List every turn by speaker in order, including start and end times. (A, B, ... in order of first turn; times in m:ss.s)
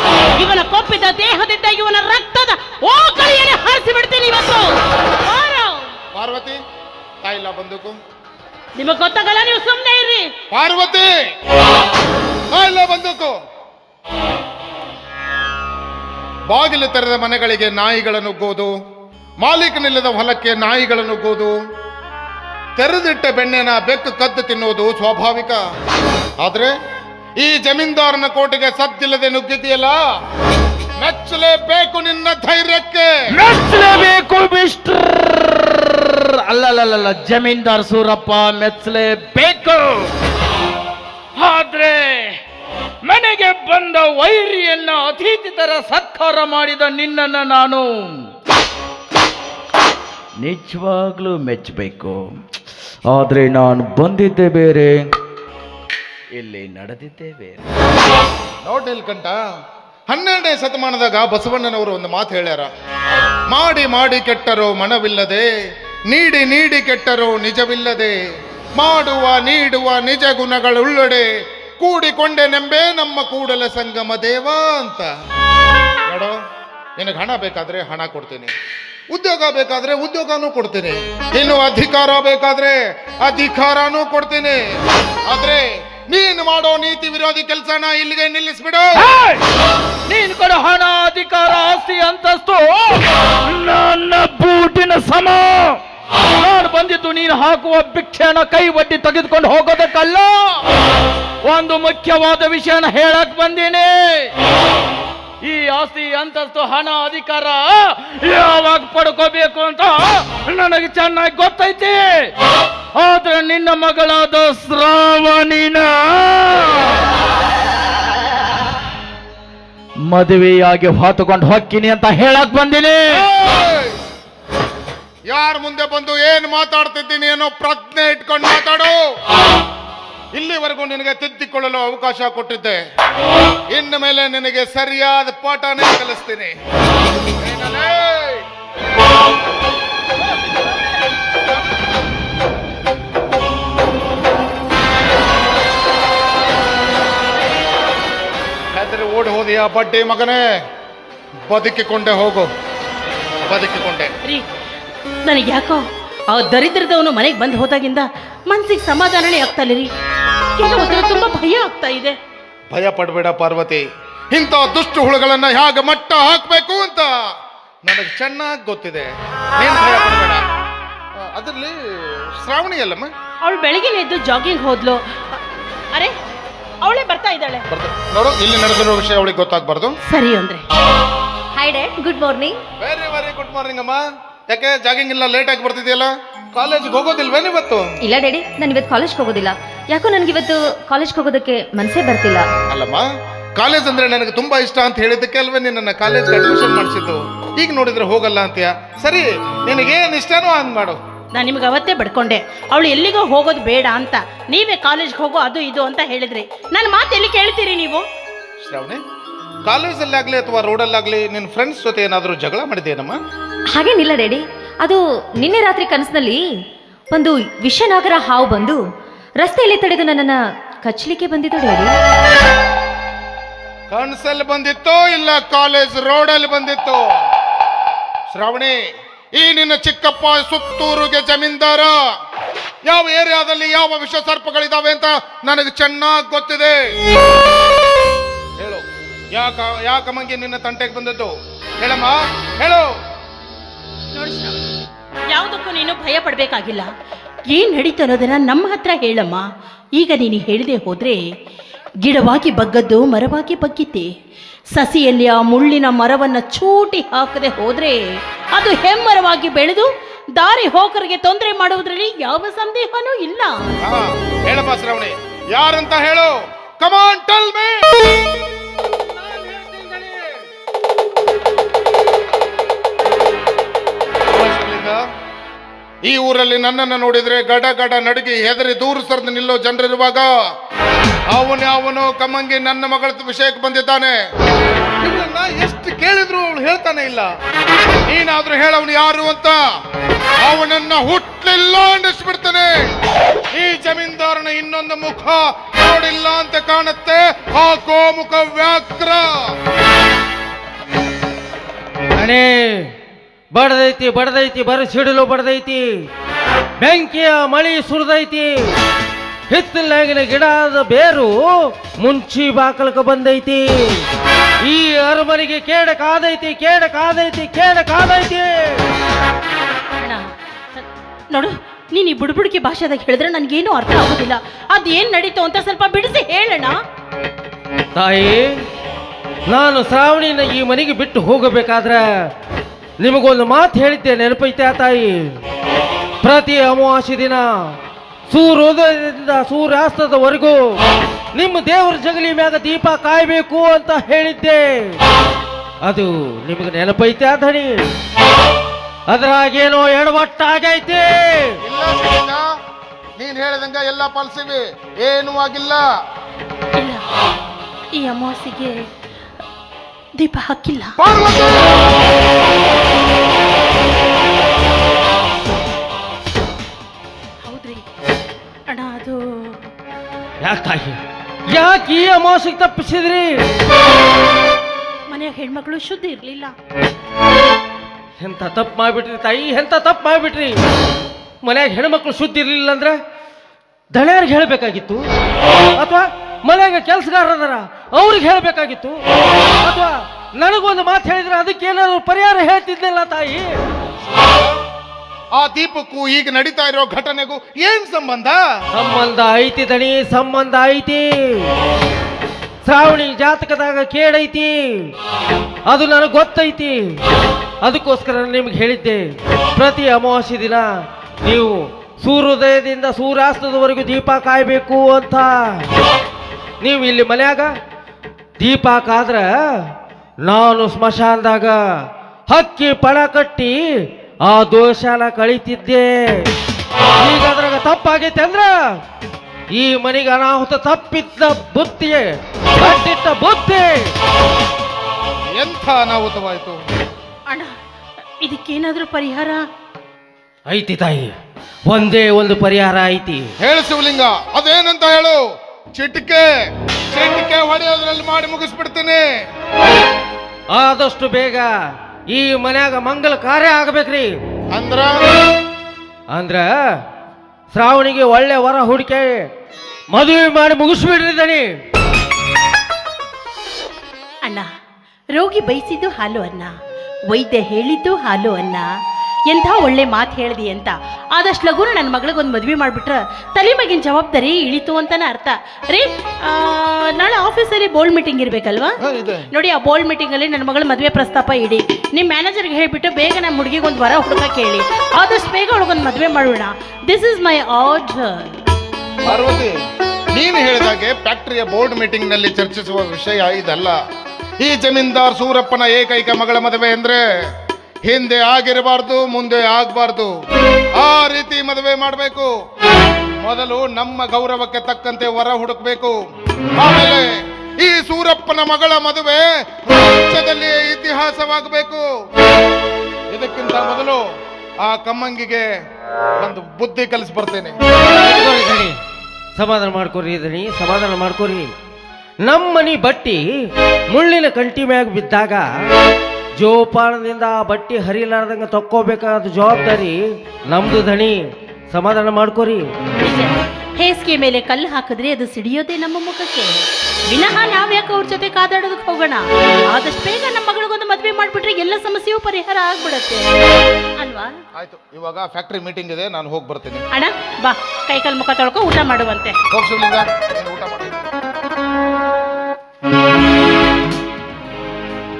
0:00.4-0:05.9 A
0:06.1-0:06.6 B
0:07.2-0:08.0 B
0:08.8-0:10.3 A
0:10.5-0:11.1 B
0:12.5-0:13.3 B
0:16.5-0:18.7 B
0:19.4-0:21.6 B
0:22.8-0:25.6 B
0:26.4-0:26.7 B
0:27.4-0:30.0 B
0:31.0-0:33.1 B
0:33.3-0:40.1 C
0:41.4-0:42.4 C
0:43.0-0:47.9 C
0:50.4-0:52.3 C
0:53.1-0:55.0 C
0:56.3-0:57.6 C
0:58.6-0:59.4 B
1:00.1-1:02.7 B
1:03.5-1:05.4 B
1:06.1-1:08.1 B
1:08.8-1:11.2 B
1:11.8-1:15.1 B
1:16.1-1:16.4 B
1:17.0-1:18.5 B
1:19.1-1:24.6 B
1:25.3-1:29.0 B
1:29.1-1:29.4 C
1:30.1-1:35.8 C
1:36.4-1:40.6 C
1:41.4-1:44.3 C
1:45.4-1:52.3 C
1:52.9-1:57.0 C
2:00.0-2:03.2 C
2:03.1-2:03.9 B
2:05.3-2:09.0 B
2:10.3-2:12.8 B
2:13.7-2:16.5 B
2:17.4-2:18.4 B
2:28.7-2:30.4 B
2:31.5-2:32.5 B
2:33.4-2:34.1 B
2:35.2-2:39.9 A
2:40.6-2:42.2 A
2:42.7-2:47.1 B
2:47.8-2:50.4 B
2:51.2-2:53.1 B
2:53.4-2:55.0 A
2:56.8-2:57.6 A
2:57.7-2:59.9 B
3:00.1-3:00.6 A
3:01.5-3:02.6 D
3:02.8-3:07.9 B
3:08.0-3:12.5 D
3:12.7-3:13.0 B
3:13.6-3:21.0 B
3:21.3-3:28.0 A
3:28.6-3:29.0 B
3:29.6-3:33.2 B
3:33.7-3:36.5 D
3:37.1-3:38.8 D
3:39.4-3:42.0 D
3:43.9-3:47.2 B
3:48.3-3:48.8 B
3:49.4-3:52.0 B
3:52.8-3:56.8 B
3:59.3-4:02.9 B
4:04.1-4:04.5 A
4:05.3-4:06.9 A
4:07.5-4:09.4 A
4:10.0-4:11.2 A
4:12.0-4:14.1 A
4:14.7-4:23.8 A
4:23.8-4:28.1 B
4:29.1-4:30.4 E
4:34.3-4:35.0 B
4:36.0-4:40.3 B
4:41.3-4:44.1 B
4:45.0-4:47.3 B
4:48.1-4:49.6 B
4:50.4-4:52.8 B
4:53.5-4:59.2 B
5:02.2-5:02.8 E
5:03.5-5:05.8 E
5:06.8-5:08.5 E
5:09.5-5:11.4 E
5:12.0-5:14.0 E
5:14.6-5:18.5 E
5:20.7-5:26.8 A
5:28.0-5:28.4 E
5:29.5-5:32.0 E
5:33.0-5:35.1 E
5:36.2-5:37.4 E
5:38.3-5:40.6 E
5:41.3-5:45.0 E
5:45.8-5:47.9 E
5:49.1-5:51.4 E
5:51.6-5:52.4 B
5:53.2-5:55.8 B
5:56.8-5:57.0 A
5:57.9-5:58.8 A
6:00.2-6:00.9 A
6:01.0-6:01.7 B
6:07.4-6:07.9 A
6:08.7-6:09.6 A
6:10.4-6:11.0 E
6:11.5-6:13.4 E
6:15.1-6:16.5 A
6:18.2-6:20.6 E
6:21.4-6:23.0 E
6:23.9-6:25.0 E
6:25.8-6:29.0 E
6:29.6-6:33.6 E
6:34.1-6:34.5 B
6:35.3-6:38.4 B
6:38.7-6:41.5 E
6:42.6-6:44.5 E
6:45.7-6:46.8 E
6:47.6-6:49.0 E
6:49.6-6:50.6 E
6:51.2-6:55.6 E
6:56.6-6:57.5 E
6:58.4-6:59.3 E
7:00.2-7:01.6 E
7:02.3-7:03.6 E
7:04.2-7:06.3 E
7:07.0-7:08.5 E
7:09.5-7:12.0 E
7:12.6-7:13.8 E
7:15.4-7:16.6 B
7:18.2-7:19.4 A
7:20.5-7:21.1 E
7:21.7-7:23.2 E
7:23.4-7:25.2 B
7:25.8-7:26.3 B
7:26.9-7:29.0 B
7:30.5-7:31.5 E
7:32.1-7:34.1 E
7:34.5-7:35.0 B
7:36.1-7:36.5 E
7:37.5-7:39.2 E
7:39.9-7:41.5 E
7:45.2-7:46.5 A
7:47.1-7:48.7 A
7:49.3-7:58.7 A
7:58.8-7:59.2 B
7:59.3-8:08.3 A
8:09.0-8:09.5 B
8:10.1-8:13.7 B
8:14.4-8:17.0 B
8:17.8-8:20.1 B
8:20.8-8:22.3 B
8:23.2-8:26.0 B
8:26.6-8:27.0 B
8:27.6-8:31.8 B
8:33.1-8:34.0 B
8:34.6-8:35.4 B
8:36.2-8:37.6 B
8:38.0-8:38.8 E
8:39.4-8:41.5 E
8:42.2-8:43.2 E
8:43.9-8:45.5 E
8:46.4-8:50.0 E
8:50.5-8:51.2 E
8:51.7-8:52.6 E
8:53.0-8:56.5 A
8:57.1-9:03.3 A
9:04.0-9:04.3 A
9:04.6-9:06.8 B
9:06.9-9:09.4 A
9:09.5-9:11.1 B